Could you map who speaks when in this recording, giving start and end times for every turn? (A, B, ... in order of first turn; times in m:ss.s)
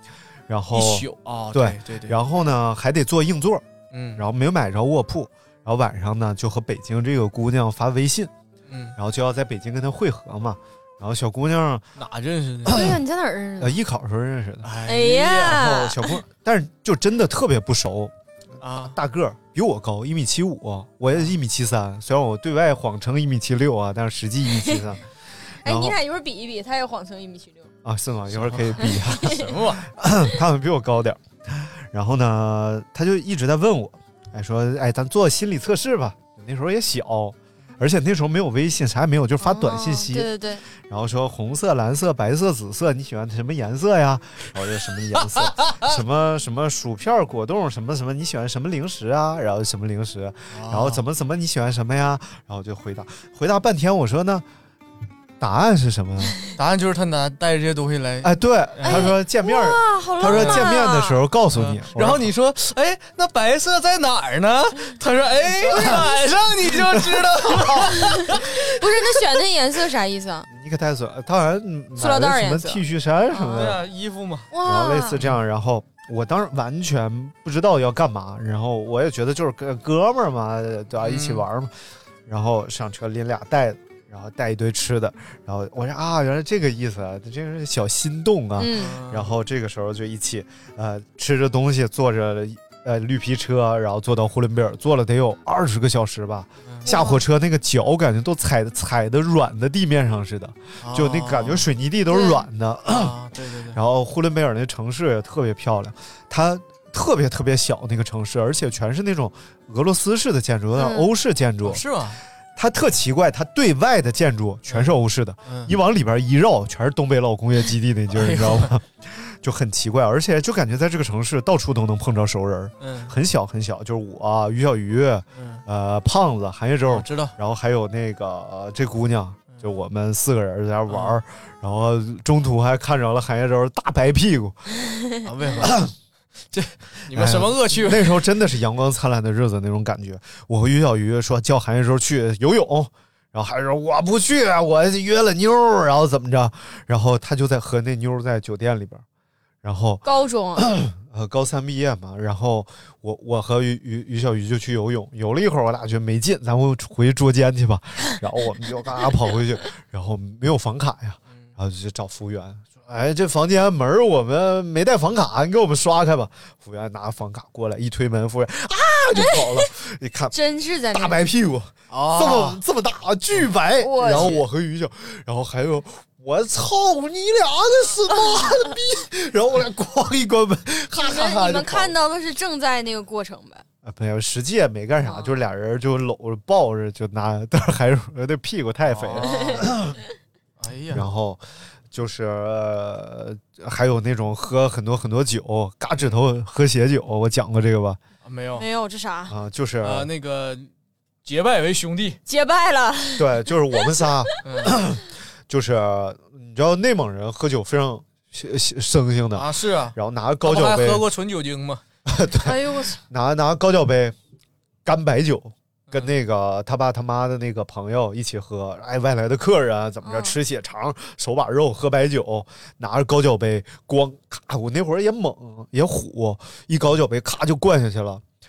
0:00.5-0:03.7 A
0:00.7-0:02.2 B
0:03.9-0:04.2 B
0:04.2-0:08.3 A
0:08.7-0:09.0 B
0:09.0-0:11.9 A
0:12.0-0:12.8 B
0:12.7-0:13.0 A
0:12.7-0:13.8 C
0:13.6-0:14.7 A
0:14.6-0:15.7 B
0:14.8-0:16.0 C
0:15.4-0:18.1 A
0:18.6-0:19.0 B
0:18.8-0:25.0 A
0:25.6-0:26.0 A
0:25.6-0:27.7 C
0:27.8-0:40.3 A
0:28.3-0:29.9 B
0:29.1-0:29.5 C
0:39.4-0:40.6 C
0:40.9-0:54.4 A
0:45.3-0:45.9 B
0:50.5-0:51.0 B
0:55.4-0:56.4 A
0:56.6-0:59.1 B
0:58.2-1:02.3 A
0:58.9-1:01.2 C
1:00.3-1:00.7 B
1:01.5-1:08.7 B
1:05.7-1:06.0 A
1:08.0-1:10.5 C
1:10.5-1:13.8 A
1:12.0-1:13.6 C
1:13.5-1:14.5 B
1:14.5-1:15.2 C
1:14.6-1:21.7 A
1:21.0-1:21.4 B
1:22.3-1:43.2 A
1:28.6-1:29.0 C
1:28.7-1:29.3 B
1:36.8-1:37.2 C
1:40.8-1:41.7 B
1:42.1-1:42.4 C
1:42.9-1:43.8 B
1:43.7-1:51.8 A
1:50.8-1:51.1 C
1:51.6-1:52.2 B
1:52.6-2:14.7 A
1:54.7-1:55.7 B
1:58.1-1:58.7 B
2:02.8-2:03.1 B
2:05.4-2:05.6 B
2:06.9-2:07.3 B
2:10.9-2:11.2 B
2:15.2-2:15.8 B
2:15.6-2:15.9 A
2:16.5-2:18.2 B
2:17.1-2:29.0 A
2:29.6-2:30.0 A
2:30.0-2:30.7 C
2:30.6-2:50.4 A
2:50.3-2:51.3 C
2:50.9-3:01.9 A
2:51.9-2:52.6 B
2:53.8-2:54.4 C
2:54.0-2:54.4 B
3:01.0-3:03.6 C
3:03.8-3:10.0 A
3:05.0-3:05.4 C
3:08.9-3:09.7 B
3:09.3-3:09.6 C
3:10.6-3:11.0 B
3:10.9-3:18.0 A
3:18.2-3:18.6 B
3:18.6-3:19.3 C
3:19.3-3:20.1 A
3:19.8-3:20.7 B
3:21.2-3:22.2 B
3:22.3-3:24.3 C
3:23.2-3:31.0 A
3:24.4-3:24.8 B
3:29.3-3:31.8 B
3:32.1-3:34.2 A
3:32.4-3:33.0 C
3:34.8-3:48.2 A
3:40.0-3:40.4 C